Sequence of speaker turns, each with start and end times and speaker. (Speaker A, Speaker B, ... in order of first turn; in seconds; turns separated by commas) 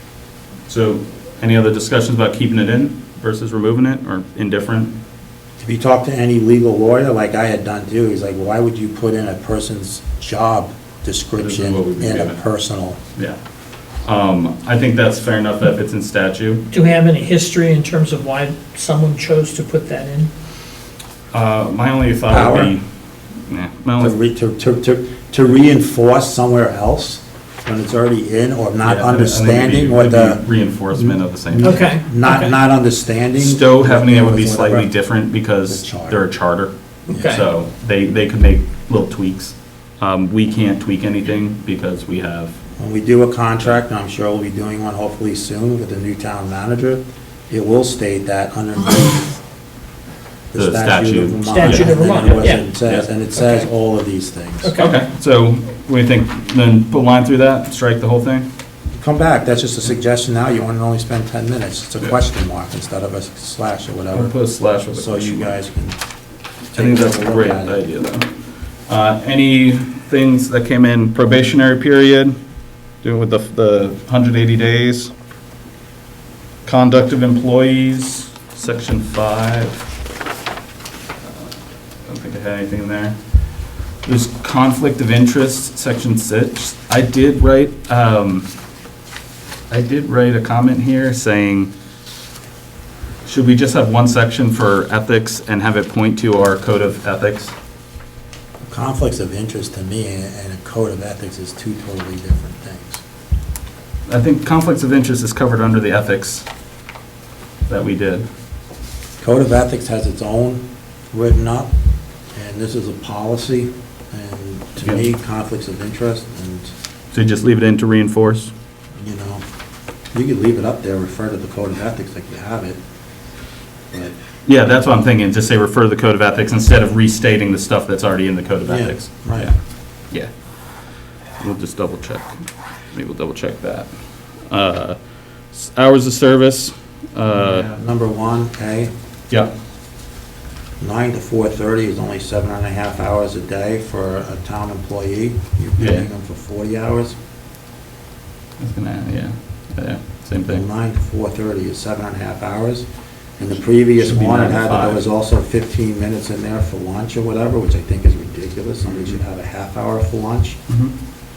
Speaker A: 0.7-4.9, Speaker B: 5.6-13.0, Speaker A: 11.4-12.4, Speaker A: 14.0-16.6, Speaker C: 16.7-20.3, Speaker A: 21.3-22.8, Speaker B: 22.3-22.7, Speaker A: 23.5-24.1, Speaker B: 24.0-30.4, Speaker A: 28.8-31.9, Speaker B: 30.9-34.9, Speaker C: 31.6-32.5, Speaker A: 33.4-42.5, Speaker B: 35.7-36.2, Speaker C: 37.1-37.5, Speaker B: 42.8-49.4, Speaker B: 50.5-54.7, Speaker A: 50.5-53.1, Speaker C: 51.5-52.6, Speaker C: 54.6-55.0, Speaker A: 54.8-58.5, Speaker B: 59.0-64.3, Speaker A: 64.1-65.5, Speaker B: 64.9-66.0, Speaker B: 66.7-67.8, Speaker A: 66.7-68.3, Speaker A: 68.9-72.4, Speaker A: 73.0-75.1, Speaker A: 76.6-79.9, Speaker A: 81.2-83.1, Speaker A: 84.0-88.5, Speaker A: 89.7-91.7, Speaker A: 93.2-97.5, Speaker B: 98.7-103.0, Speaker A: 104.1-106.5, Speaker A: 107.7-108.3, Speaker B: 109.2-111.7, Speaker B: 112.3-116.7, Speaker A: 117.1-118.5, Speaker B: 119.0-119.4, Speaker B: 120.1-122.8, Speaker A: 124.4-129.5, Speaker B: 128.7-129.5, Speaker A: 131.4-132.4, Speaker A: 132.9-133.9, Speaker A: 134.5-135.0, Speaker A: 135.5-137.7, Speaker B: 137.3-138.9, Speaker B: 140.8-147.2, Speaker A: 145.8-146.1, Speaker A: 148.6-150.6, Speaker B: 150.4-152.8, Speaker B: 153.4-160.6, Speaker A: 154.0-155.0, Speaker A: 160.7-160.9